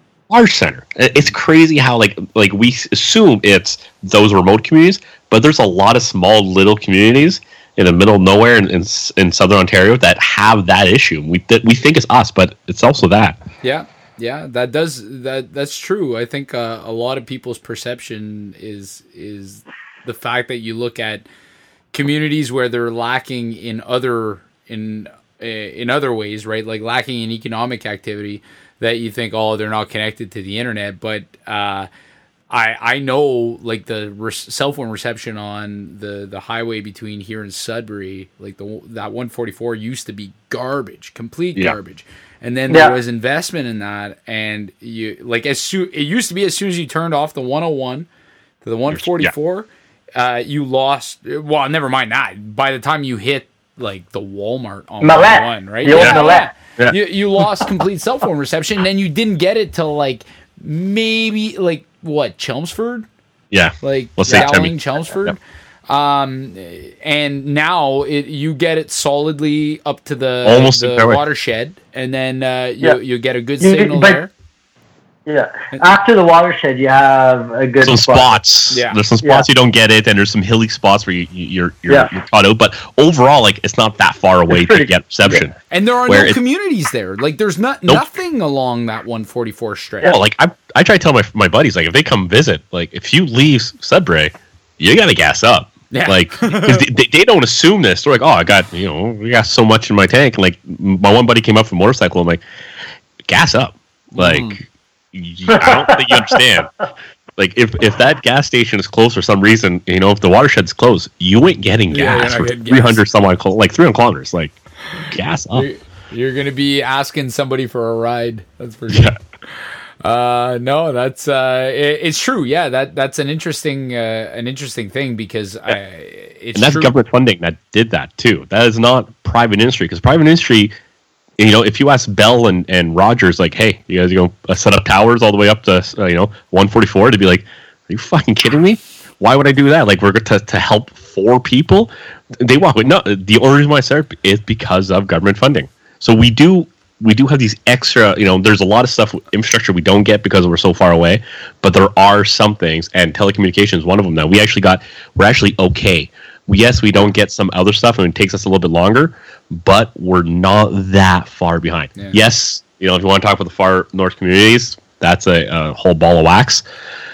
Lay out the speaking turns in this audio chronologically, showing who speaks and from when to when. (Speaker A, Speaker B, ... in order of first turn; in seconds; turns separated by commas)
Speaker A: 0.3-13.4, Speaker B: 13.6-21.2, Speaker B: 21.9-31.9, Speaker B: 32.5-48.1, Speaker C: 42.7-42.9, Speaker B: 48.6-63.0, Speaker A: 48.9-49.3, Speaker C: 55.0-56.5, Speaker A: 63.5-65.3, Speaker B: 63.8-65.4, Speaker B: 65.9-74.3, Speaker A: 70.4-71.2, Speaker C: 73.6-74.2, Speaker C: 75.3-78.4, Speaker A: 77.8-85.5, Speaker B: 78.7-79.0, Speaker C: 79.2-79.5, Speaker C: 84.5-84.9, Speaker B: 85.7-90.2, Speaker A: 86.1-86.4, Speaker A: 90.0-102.4, Speaker B: 95.9-96.8, Speaker A: 103.3-104.6, Speaker B: 104.1-104.6, Speaker A: 105.1-106.7, Speaker C: 105.5-106.3, Speaker A: 107.4-114.6, Speaker B: 111.9-113.0, Speaker A: 115.1-115.7, Speaker B: 115.5-119.1, Speaker A: 118.9-119.2, Speaker B: 120.0-126.9, Speaker A: 126.5-130.7, Speaker A: 131.4-166.6